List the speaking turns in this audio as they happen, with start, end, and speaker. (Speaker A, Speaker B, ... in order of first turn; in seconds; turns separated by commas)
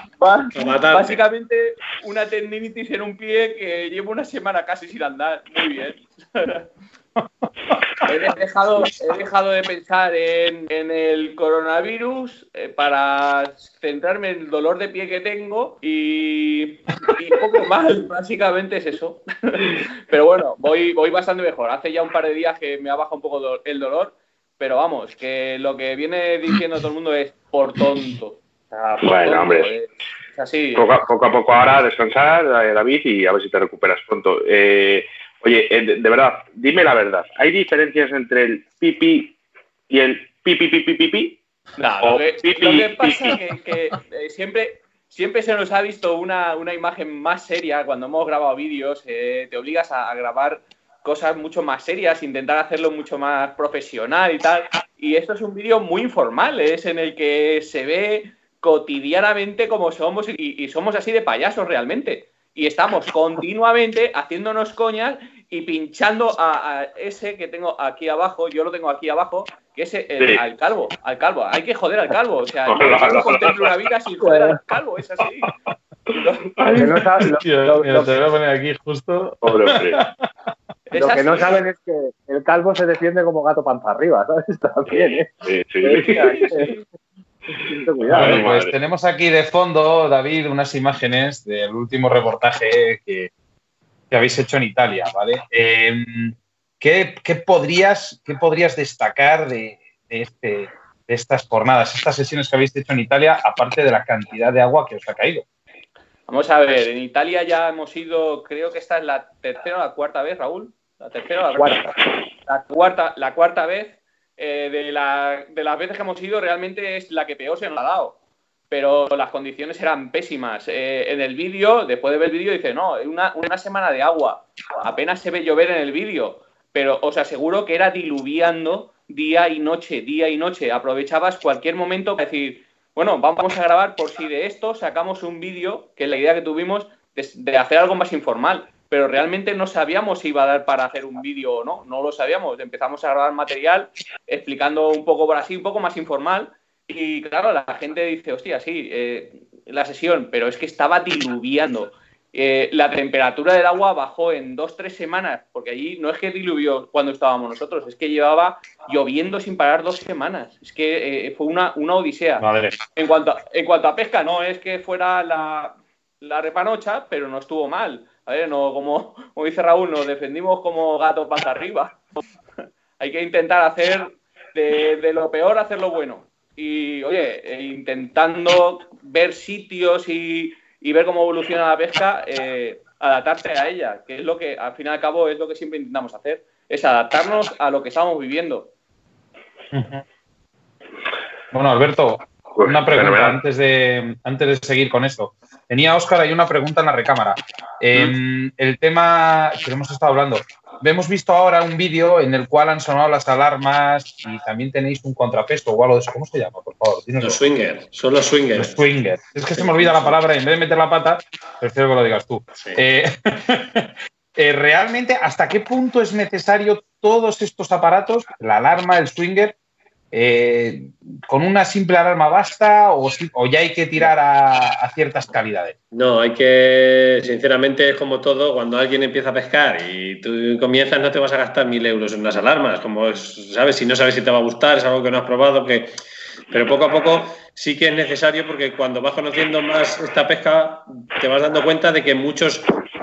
Speaker A: 0.2-6.7, Speaker B: 0.5-1.2, Speaker A: 8.0-30.9, Speaker C: 29.0-29.7, Speaker C: 30.7-39.4, Speaker C: 39.9-41.4, Speaker A: 41.8-75.5, Speaker C: 42.0-43.4, Speaker C: 72.7-73.7, Speaker D: 74.2-74.5, Speaker A: 76.2-76.5, Speaker C: 76.6-77.0, Speaker D: 76.7-78.2, Speaker E: 76.7-80.1, Speaker C: 79.4-80.0, Speaker A: 80.9-81.6, Speaker D: 81.0-85.3, Speaker C: 84.9-86.7, Speaker D: 85.8-86.8, Speaker D: 87.6-88.4, Speaker C: 88.0-88.7, Speaker E: 88.1-93.3, Speaker E: 94.1-105.5, Speaker A: 106.3-111.9, Speaker A: 112.5-118.2, Speaker A: 118.7-172.0, Speaker E: 162.4-162.8, Speaker A: 173.0-188.7, Speaker E: 189.7-190.0, Speaker E: 191.5-207.4, Speaker C: 192.5-193.4, Speaker B: 207.2-208.8, Speaker E: 208.5-219.6, Speaker B: 209.5-210.1, Speaker E: 220.1-225.8, Speaker B: 225.9-236.0, Speaker B: 236.5-242.7